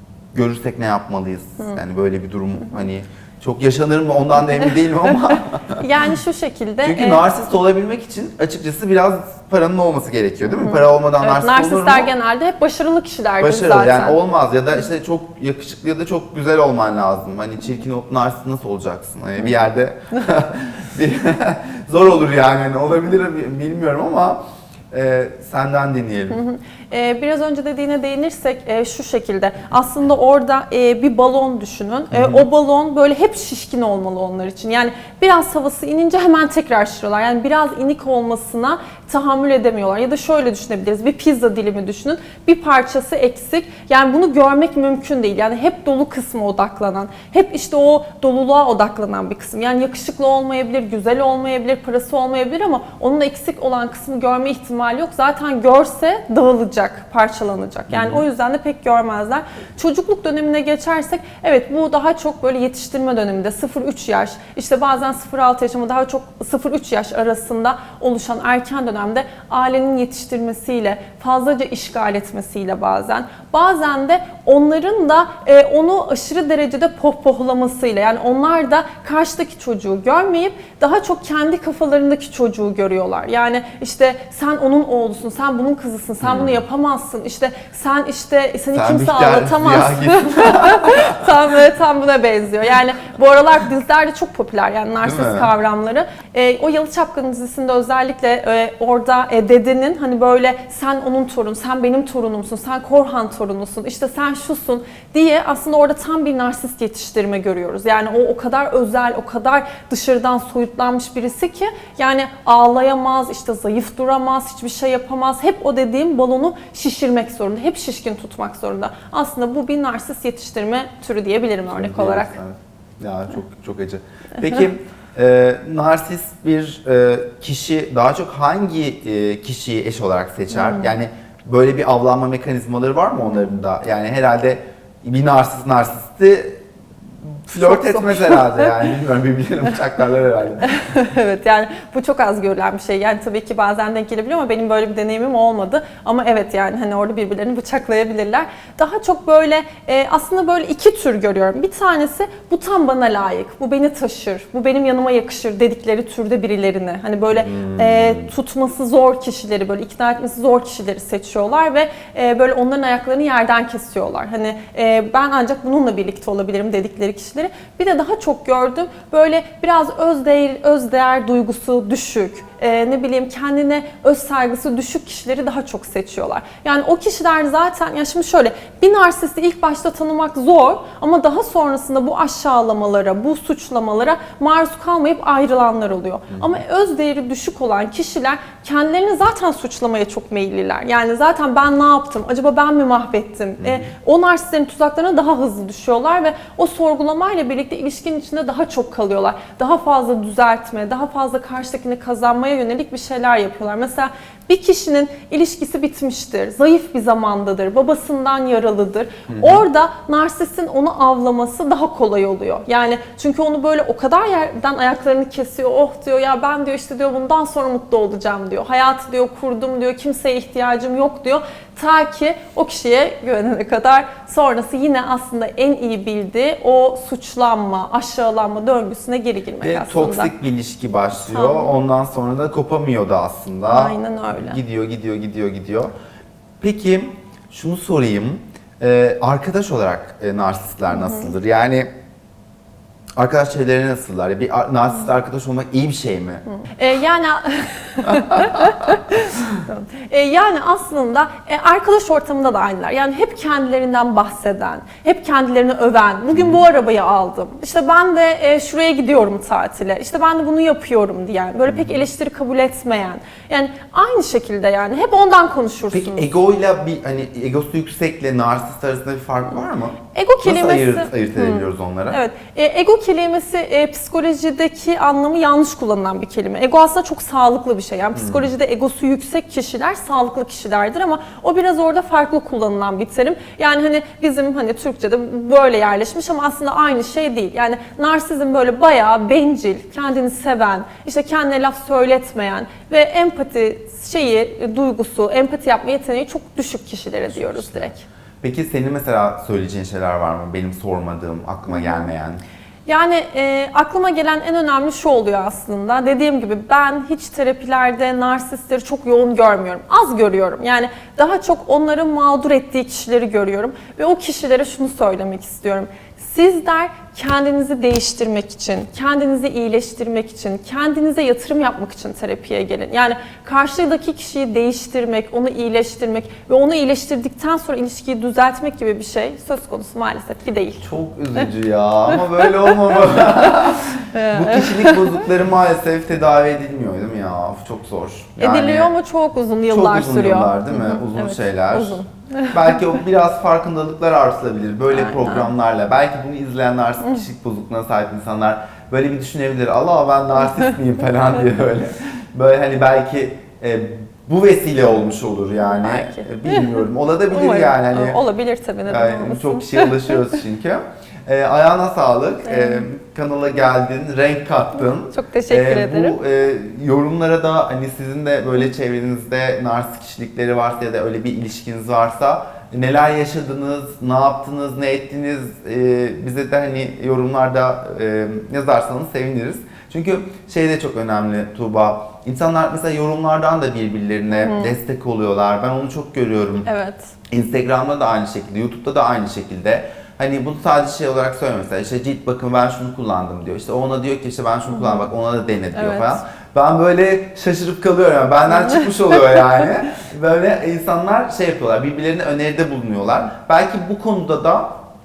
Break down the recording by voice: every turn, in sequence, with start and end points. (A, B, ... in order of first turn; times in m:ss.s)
0:00.3-0:05.8 A
0:05.8-0:07.2 B
0:06.8-0:12.1 A
0:10.5-0:14.2 B
0:13.4-0:26.4 A
0:26.3-2:02.4 B
0:32.1-0:32.4 A
0:57.9-0:58.2 A
1:26.2-1:26.6 A
1:28.7-1:31.1 A
1:35.0-1:35.5 A
2:01.7-2:16.6 A
2:10.5-2:10.9 B
2:17.5-2:20.8 A
2:17.6-2:18.9 B
2:20.6-3:50.3 B
2:37.3-2:38.3 A
3:13.6-3:13.9 A
3:29.3-3:29.6 A
3:49.6-3:55.9 A
3:51.2-3:51.7 B
3:53.7-3:54.6 B
3:56.6-4:01.9 A
4:00.9-4:01.3 B
4:03.2-4:06.4 A
4:06.7-4:26.3 B
4:08.4-4:08.6 A
4:16.3-4:16.6 A
4:25.9-4:32.2 A
4:30.1-4:58.0 B
4:38.1-4:38.5 A
4:57.3-4:57.9 A
4:58.4-5:02.4 A
5:01.7-5:02.1 B
5:02.8-5:31.5 B
5:30.8-5:38.9 A
5:32.1-5:33.5 B
5:34.1-5:35.2 B
5:38.4-5:42.9 B
5:39.7-5:58.2 A
5:44.9-5:45.5 B
5:55.6-6:00.3 B
5:58.9-6:26.7 A
6:02.4-6:02.9 B
6:05.1-6:06.2 B
6:24.3-6:24.8 B
6:26.6-6:27.1 B
6:27.3-6:44.8 A
6:34.7-6:35.1 B
6:35.7-6:36.2 B